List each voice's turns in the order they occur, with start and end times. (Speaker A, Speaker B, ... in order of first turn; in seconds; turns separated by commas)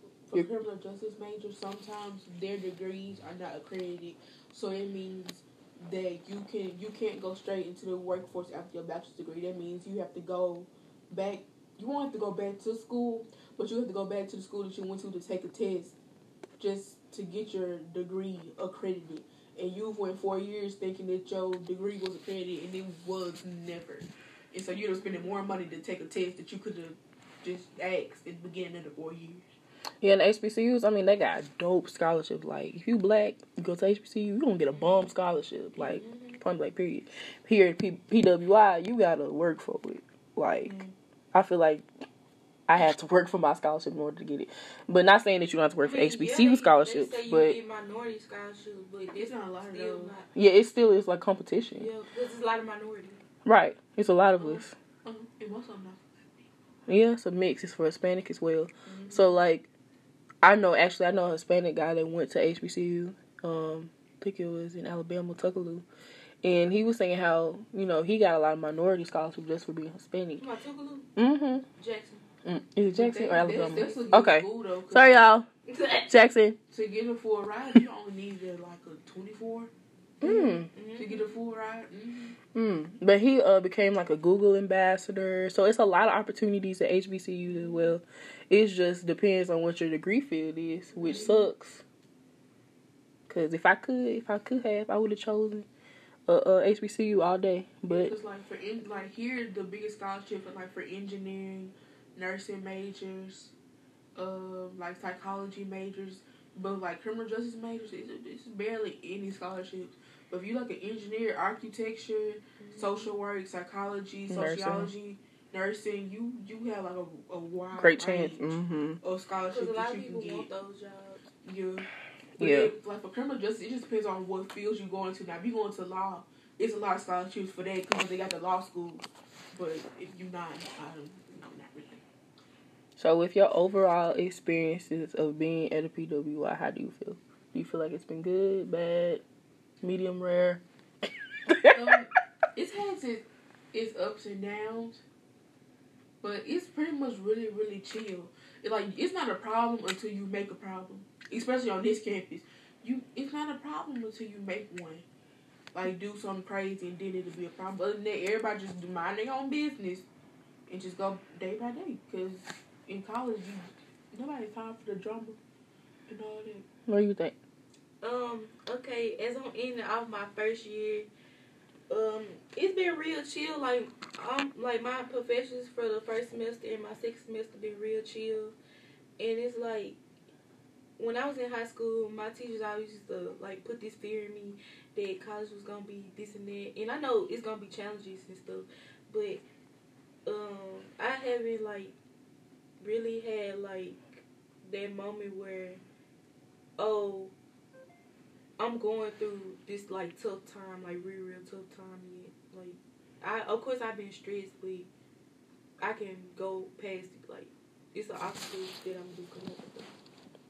Speaker A: 0.3-16.0, Speaker A: 16.6-29.4, Speaker B: 30.0-41.9, Speaker C: 35.8-36.4, Speaker A: 40.6-40.9, Speaker B: 42.7-47.6, Speaker C: 45.8-50.3, Speaker A: 49.1-50.2, Speaker B: 50.3-51.9, Speaker C: 51.8-53.2, Speaker B: 53.5-54.7, Speaker A: 54.4-56.5, Speaker B: 56.9-59.7, Speaker A: 58.9-59.2, Speaker B: 60.4-65.9, Speaker B: 66.4-70.4, Speaker C: 70.4-71.1, Speaker B: 71.2-71.7, Speaker C: 71.8-72.3, Speaker B: 72.5-75.5, Speaker A: 73.0-75.2, Speaker C: 75.7-76.1, Speaker B: 76.1-76.6, Speaker A: 76.7-79.7, Speaker B: 80.2-80.7, Speaker C: 80.2-81.3, Speaker A: 81.0-82.4, Speaker B: 82.5-91.8, Speaker C: 91.0-91.3, Speaker A: 91.0-91.3, Speaker B: 93.3-95.7, Speaker B: 96.3-98.1, Speaker A: 97.9-103.5, Speaker A: 104.2-118.4, Speaker C: 112.6-113.1, Speaker B: 114.3-114.9, Speaker B: 117.7-119.0, Speaker A: 119.0-120.5, Speaker C: 119.5-121.2, Speaker A: 121.4-121.9, Speaker B: 122.4-122.7, Speaker A: 122.4-132.0, Speaker B: 133.0-139.2, Speaker B: 139.8-140.6, Speaker B: 141.5-142.0, Speaker A: 141.7-145.0, Speaker A: 146.2-155.1, Speaker A: 155.7-160.1, Speaker A: 160.7-165.4, Speaker A: 166.1-166.7, Speaker B: 166.9-167.4, Speaker C: 168.0-171.1, Speaker C: 171.9-178.6, Speaker C: 179.2-180.0, Speaker C: 181.0-189.4, Speaker C: 190.3-191.9, Speaker C: 192.8-195.8, Speaker C: 196.8-197.3, Speaker C: 198.6-204.9, Speaker C: 205.8-209.9